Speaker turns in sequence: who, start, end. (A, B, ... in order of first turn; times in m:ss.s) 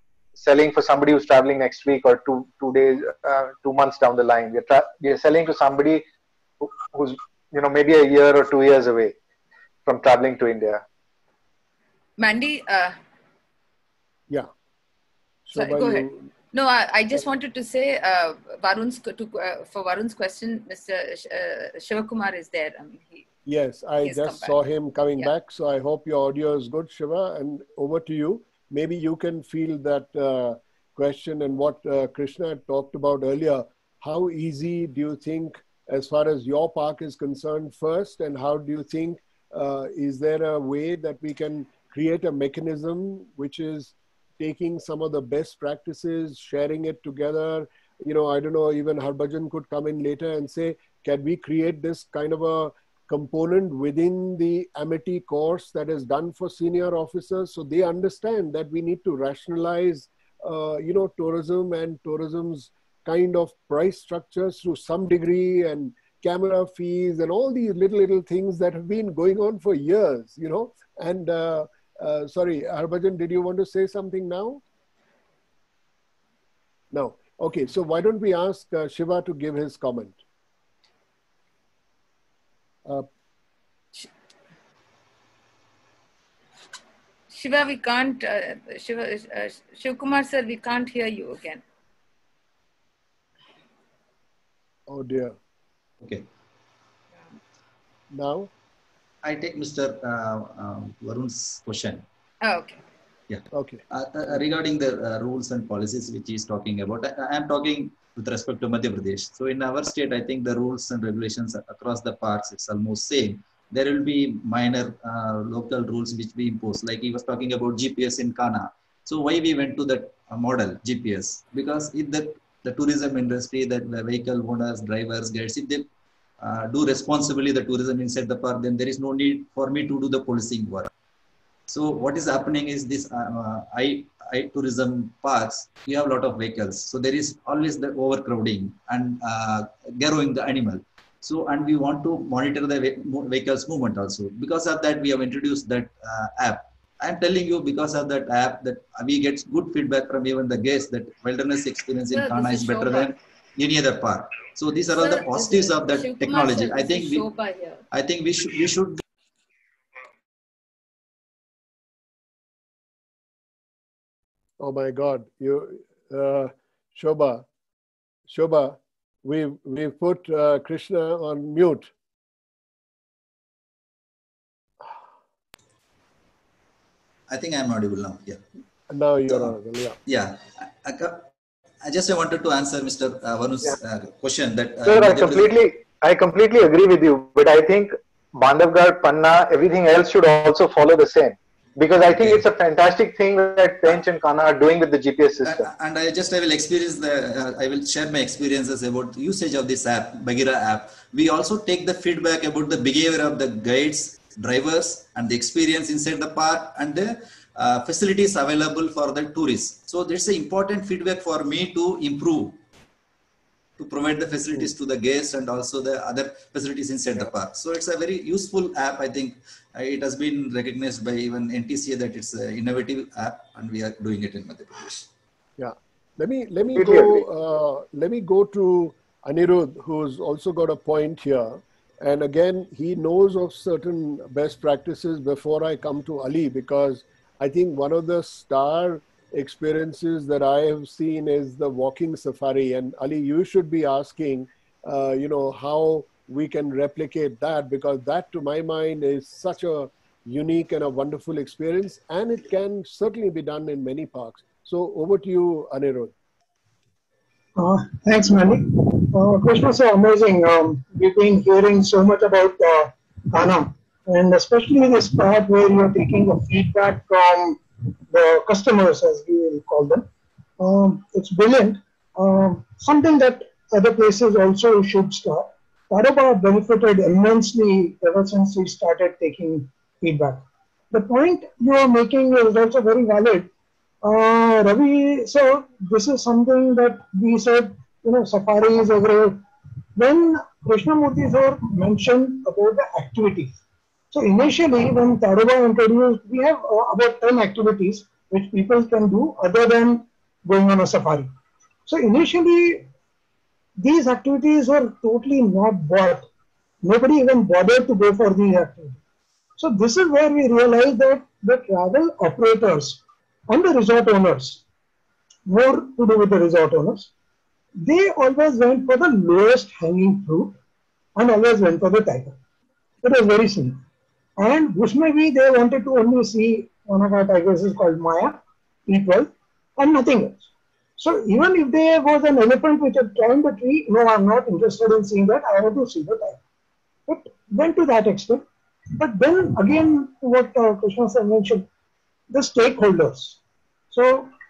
0:00.4-0:06.0 A
0:06.6-0:09.1 A
0:09.8-0:10.8 A
0:12.2-0:13.0 B
0:15.4-0:16.3 C
0:15.5-0:23.3 B
0:23.4-1:14.6 C
0:24.0-0:24.6 B
1:16.9-1:20.2 C
1:27.3-1:31.6 B
1:34.9-1:35.4 C
1:36.0-1:36.3 D
1:38.1-1:38.5 C
1:39.2-1:42.0 D
1:42.4-1:42.8 B
1:43.3-2:05.9 D
1:43.5-1:43.8 C
2:06.4-2:10.9 D
2:11.7-2:37.2 D
2:32.1-2:33.1 B
2:35.0-2:37.8 B
2:37.9-2:39.0 D
2:44.6-2:47.4 C
2:48.3-2:51.9 C
2:57.3-2:58.4 D
2:58.9-3:00.0 C
3:00.0-3:01.3 D
3:01.8-3:05.6 D
3:04.8-3:15.7 A
3:12.1-3:12.4 D
3:15.4-3:32.6 D
3:33.8-3:45.1 D
3:45.6-4:16.1 C
3:46.7-3:47.2 A
4:17.6-4:30.1 E
4:30.6-4:43.5 E
4:44.0-4:49.4 E
4:50.0-4:53.6 E
4:54.1-5:01.3 E
5:01.9-5:02.8 E
5:03.8-5:06.3 E
5:06.8-5:09.0 E
5:09.6-5:14.6 E
5:15.5-5:17.1 E
5:17.8-5:20.6 E
5:21.2-5:22.4 E
5:23.0-5:23.8 E
5:24.4-5:36.4 E
5:37.1-5:38.4 E
5:39.0-5:41.7 E
5:42.3-5:43.4 E
5:43.9-5:44.3 E